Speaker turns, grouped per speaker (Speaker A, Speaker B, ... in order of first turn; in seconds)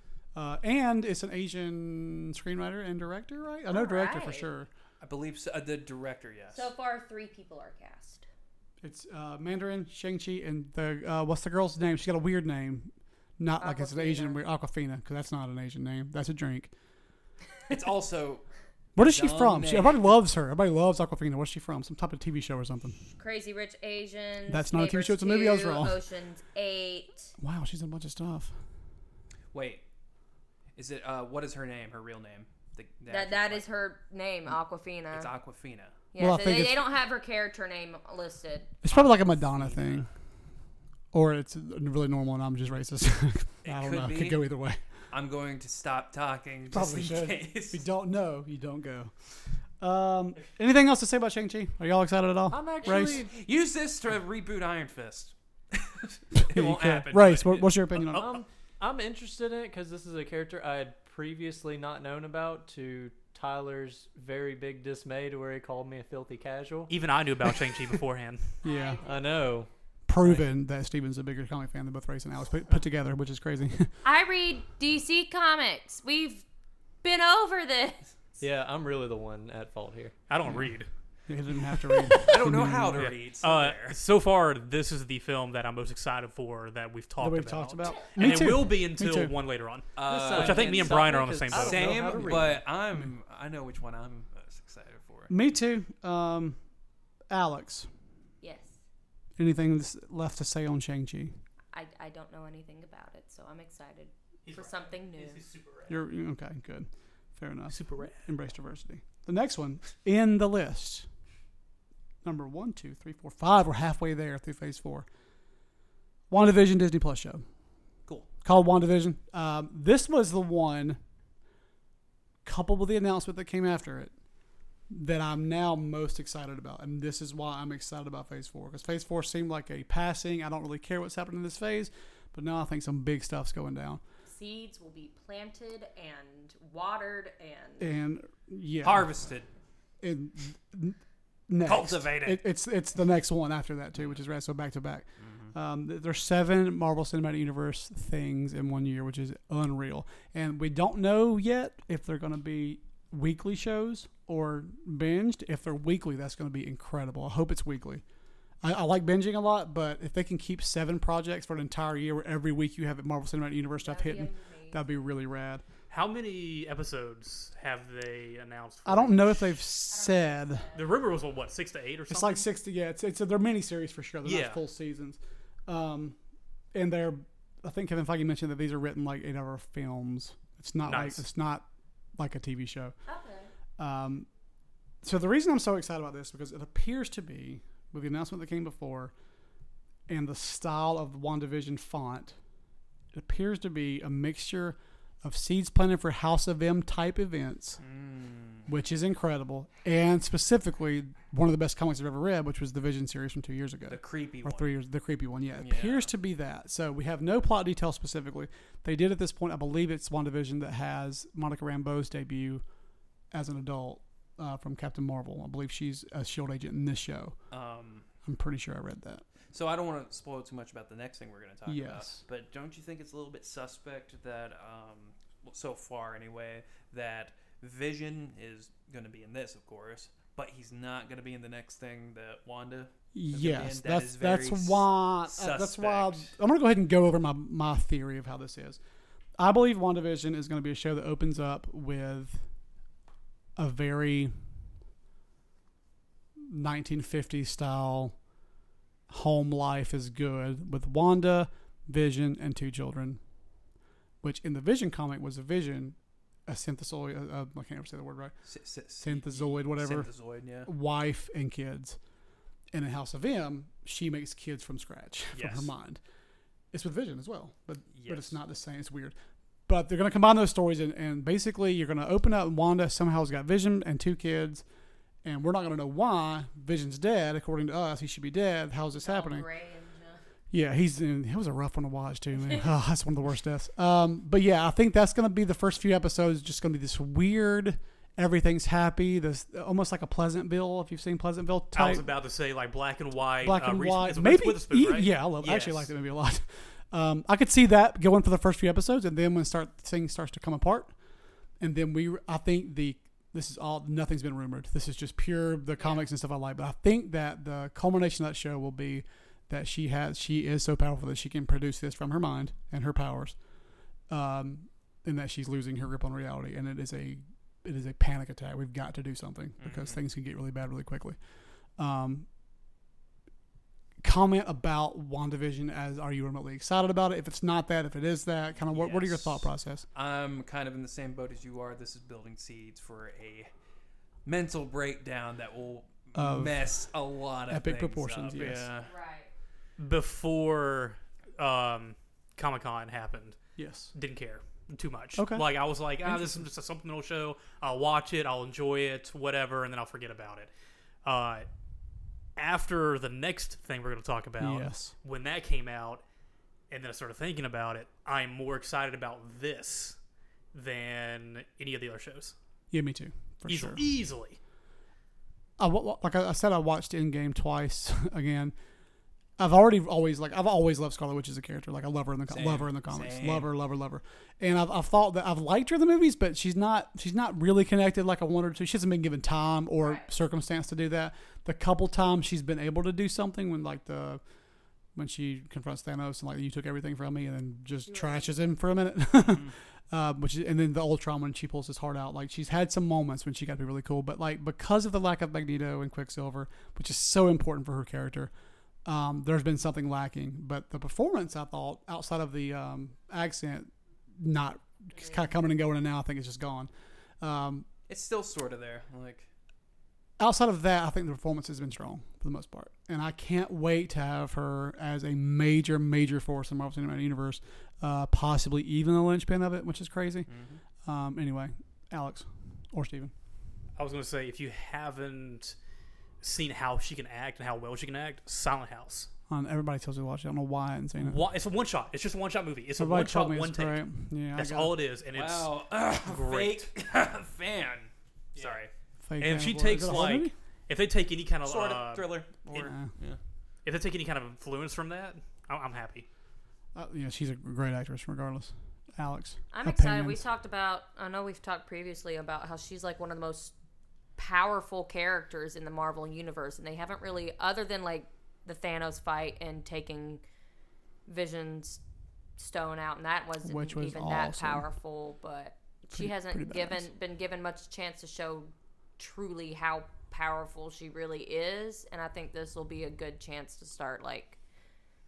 Speaker A: 0.3-4.7, 8.8-16.7, 18.9-23.0, 24.5-26.0, 27.4-28.5, 36.2-36.8, 38.8-40.1, 41.1-44.8, 46.7-49.1, 49.8-53.2, 56.3-58.3, 70.1-73.9, 81.3-83.1, 87.2-89.3, 91.6-92.6, 95.3-96.6, 97.3-97.9, 99.4-101.3, 105.9-111.1, 112.2-115.1, 116.3-117.4, 118.4-121.0, 122.4-124.1, 124.9-134.0, 137.8-139.1, 140.0-158.0, 158.6-165.6, 168.8-170.7, 172.1-176.2, 176.7-181.7, 182.2-182.9, 183.8-184.3, 185.0-189.1, 190.1-192.3, 193.1-197.8, 198.7-212.6, 213.3-217.4, 218.2-219.2, 221.7-222.2, 233.1-238.8, 239.4-242.4, 243.6-244.3, 246.4-248.1, 249.1-253.2, 254.2-255.9, 256.5-258.3, 259.0-260.1, 260.6-262.0, 262.7-266.0, 266.7-269.1, 269.7-274.6, 275.2-279.4, 280.5-292.1, 293.4-300.9, 301.6-313.4, 314.1-321.2, 321.8-322.2, 324.0-329.8, 336.1-336.8, 337.5-338.7, 343.6-343.9, 345.1-345.5, 346.0-346.4, 354.4-354.9, 362.7-363.8, 365.6-368.5, 369.4-384.2, 384.9-398.3, 398.8-406.7, 407.2-407.7, 410.2-420.3, 420.8-423.1, 429.3-431.2, 432.8-434.7, 439.0-440.3, 442.5-442.9, 446.7-450.2, 463.4-464.7, 465.9-466.9
Speaker B: 3.7-4.5, 6.5-8.2, 13.6-14.4, 23.1-27.3, 33.1-35.3, 36.1-38.7, 68.6-69.1, 74.0-76.4, 77.0-78.0, 98.4-98.8, 101.7-105.4, 134.2-137.9, 163.8-164.8, 169.9-171.0, 183.1-183.5, 279.0-280.2, 305.8-306.1, 338.8-339.3, 379.8-380.1, 387.9-388.4, 449.5-453.5, 454.1-460.2, 461.1-461.8, 462.4-474.4
Speaker C: 5.0-6.7, 17.7-18.4, 18.9-20.0, 29.5-29.8, 30.8-33.6, 35.1-35.9, 38.9-40.1, 43.6-44.4, 45.1-47.8, 52.9-58.3, 82.1-84.0, 90.0-91.0, 91.5-95.3, 138.8-139.5, 141.6-142.4, 145.2-145.5, 174.2-174.6, 197.8-198.7, 203.9-204.7, 205.6-206.1, 217.5-218.1, 219.5-236.3, 258.5-260.7, 265.4-265.7, 267.9-268.3, 295.4-295.9, 319.6-320.0, 328.6-333.5, 334.2-338.9, 372.3-373.5, 389.3-389.5, 407.9-409.3, 420.3-420.6, 435.1-438.7, 441.4-443.2
Speaker D: 52.5-53.3, 58.1-66.9, 69.0-70.5, 78.4-80.1, 90.1-92.6
Speaker E: 66.9-68.6, 80.3-80.9, 83.0-92.0, 104.5-106.0, 107.7-108.2, 165.9-169.6, 170.7-172.4, 180.8-181.2, 291.7-295.2, 339.8-343.4, 343.9-350.5, 351.0-351.5, 352.4-356.0, 356.7-360.0, 360.5-362.3, 363.5-364.4, 423.8-425.6, 426.2-429.1, 431.0-436.7, 438.3-438.6, 439.2-442.3, 443.6-446.1